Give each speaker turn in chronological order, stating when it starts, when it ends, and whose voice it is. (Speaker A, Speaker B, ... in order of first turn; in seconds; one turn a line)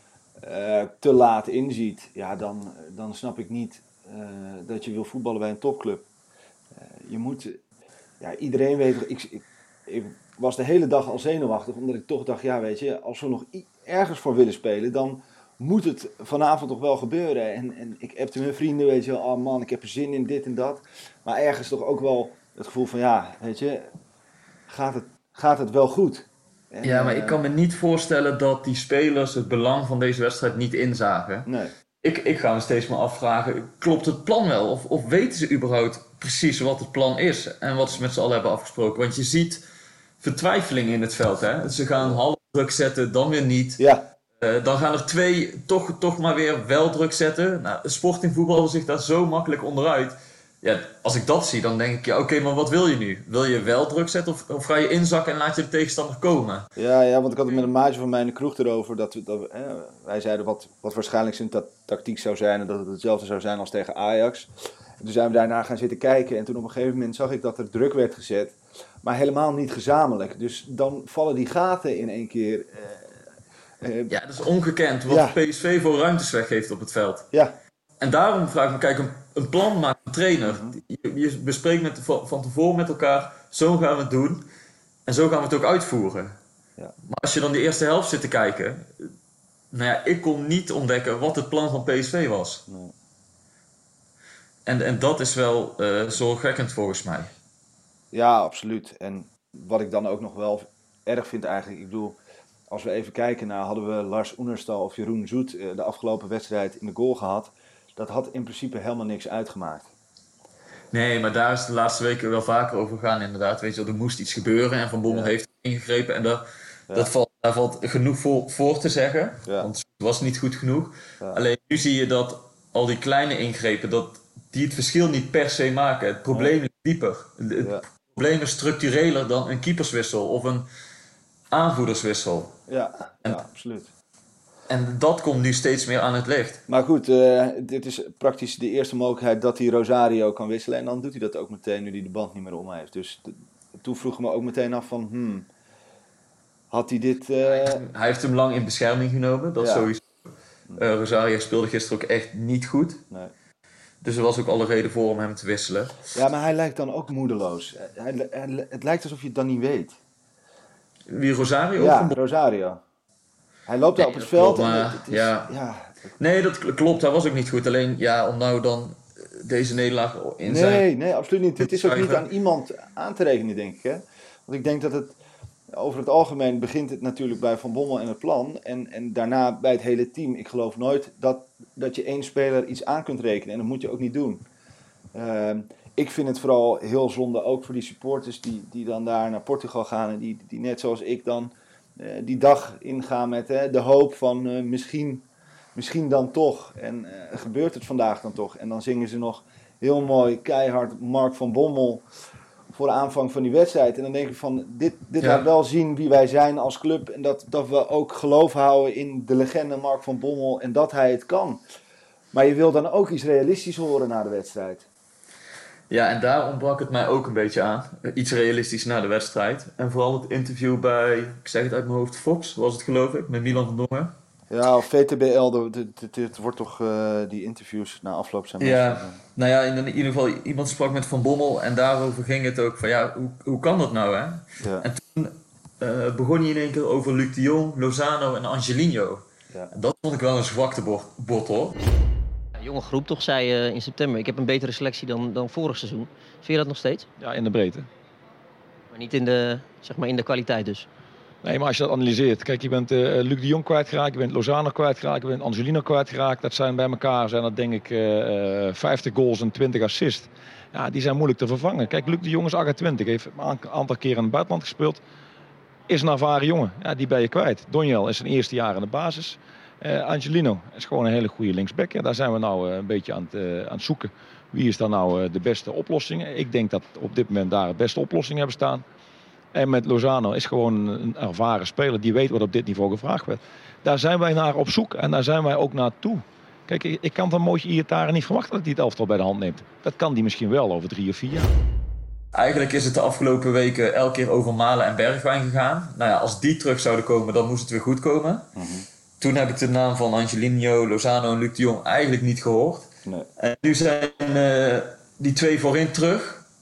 Speaker A: 0.4-6.0
Speaker A: 6.7-7.6
Speaker A: 8.2-23.9
Speaker A: 24.7-27.4
Speaker B: 26.8-31.5
Speaker A: 31.4-31.7
Speaker B: 32.0-39.6
Speaker B: 40.2-43.8
Speaker A: 43.8-44.1
Speaker B: 44.4-56.7
Speaker A: 56.8-64.5
Speaker A: 65.0-73.2
Speaker A: 73.8-74.1
Speaker B: 74.1-77.3
Speaker A: 75.1-75.3
Speaker A: 77.3-77.6
Speaker B: 78.0-84.5
Speaker A: 80.5-80.8
Speaker B: 85.0-86.4
Speaker B: 87.0-89.1
Speaker B: 89.7-92.6
Speaker A: 92.7-92.9
Speaker B: 94.7-97.3
Speaker A: 98.1-102.2
Speaker A: 102.7-109.9
Speaker B: 110.9-116.4
Speaker A: 115.1-115.3
Speaker B: 116.9-130.7
Speaker B: 131.5-132.5
Speaker A: 132.7-133.9
Speaker B: 134.7-136.6
Speaker A: 136.7-145.5
Speaker A: 146.7-147.8
Speaker B: 147.5-150.2
Speaker A: 149.6-149.9
Speaker B: 150.8-153.0
Speaker B: 154.0-156.0
Speaker A: 156.1-160.0
Speaker B: 161.1-162.2
Speaker A: 161.8-162.8
Speaker A: 163.7-165.9
Speaker B: 164.0-165.5
Speaker B: 166.2-170.8
Speaker A: 170.4-175.2
Speaker B: 171.6-172.2
Speaker A: 175.7-184.4
Speaker A: 185.1-195.2
Speaker A: 195.7-202.0
Speaker A: 202.7-211.6
Speaker A: 212.3-214.9
Speaker B: 215.9-224.1
Speaker A: 224.5-229.2
Speaker B: 228.6-241.7
Speaker A: 234.6-234.8
Speaker C: 242.6-247.1
Speaker D: 247.2-247.9
Speaker C: 248.9-250.9
Speaker D: 251.4-265.0
Speaker D: 265.9-278.8
Speaker D: 279.5-291.5
Speaker B: 292.3-298.5
Speaker A: 298.6-298.9
Speaker B: 299.2-306.4